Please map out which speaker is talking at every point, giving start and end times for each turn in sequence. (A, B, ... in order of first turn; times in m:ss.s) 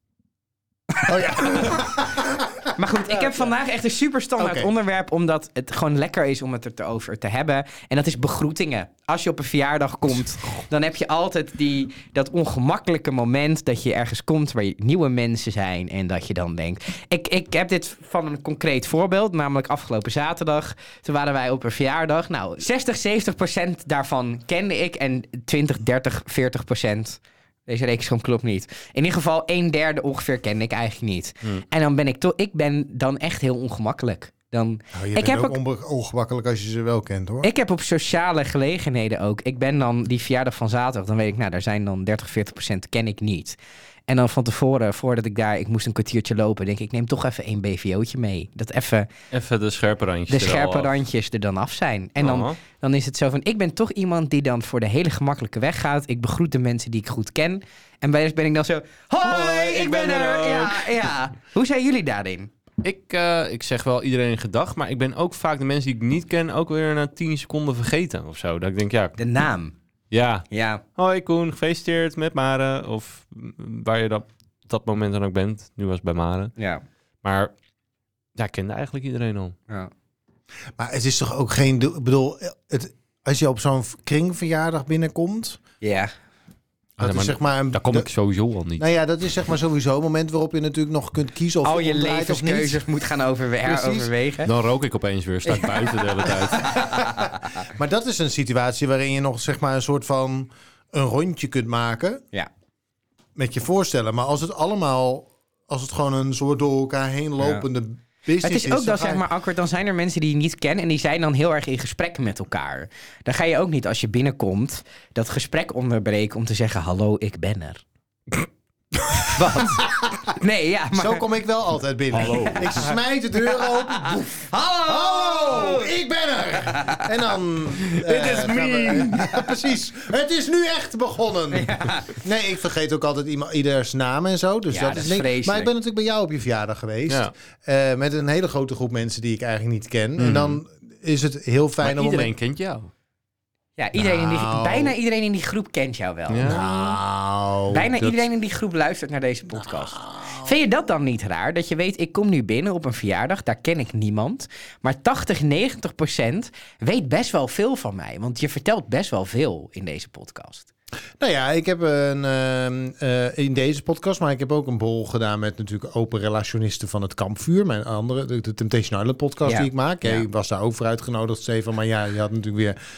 0:01.0-0:01.7 A
0:01.1-0:03.5 B
0:02.7-0:35.6 A
0:04.4-0:04.7 B
0:34.9-0:37.5 B
0:37.4-0:43.6 A
0:44.1-0:49.1 A
0:49.3-0:50.9 C
0:50.3-1:02.5 A
0:52.2-0:52.6 C
0:59.2-1:01.0 C
1:02.8-1:09.2 C
1:09.2-1:09.7 A
1:10.1-1:10.4 C
1:10.5-1:10.8 A
1:11.0-1:16.5 C
1:16.6-1:16.8 A
1:17.2-1:17.5 C
1:18.4-1:19.6 C
1:20.8-1:25.6 B
1:25.8-1:26.1 A
1:27.0-1:28.1 B
1:27.0-1:28.9 C
1:28.8-1:32.8 B
1:31.6-1:34.5 A
1:33.6-1:34.1 B
1:34.4-1:36.8 C
1:36.5-1:42.2 B
1:36.7-1:37.5 A
1:43.4-1:49.2 B
1:48.4-1:57.8 A
1:59.2-2:01.2 A
2:00.9-2:22.3 B
2:02.1-2:02.9 C
2:02.3-2:02.6 A
2:03.5-2:05.9 A
2:06.8-2:07.1 A
2:07.9-2:09.3 C
2:11.5-2:12.1 A
2:14.7-2:15.7 A
2:20.2-2:20.6 C
2:21.8-2:22.9 C
2:23.8-2:26.6 A
2:24.0-2:24.9 B
2:26.3-2:27.0 C
2:26.4-2:28.2 B
2:27.7-2:40.7 A
2:29.6-2:30.5 B
2:41.2-2:52.8 B
2:49.5-2:50.3 A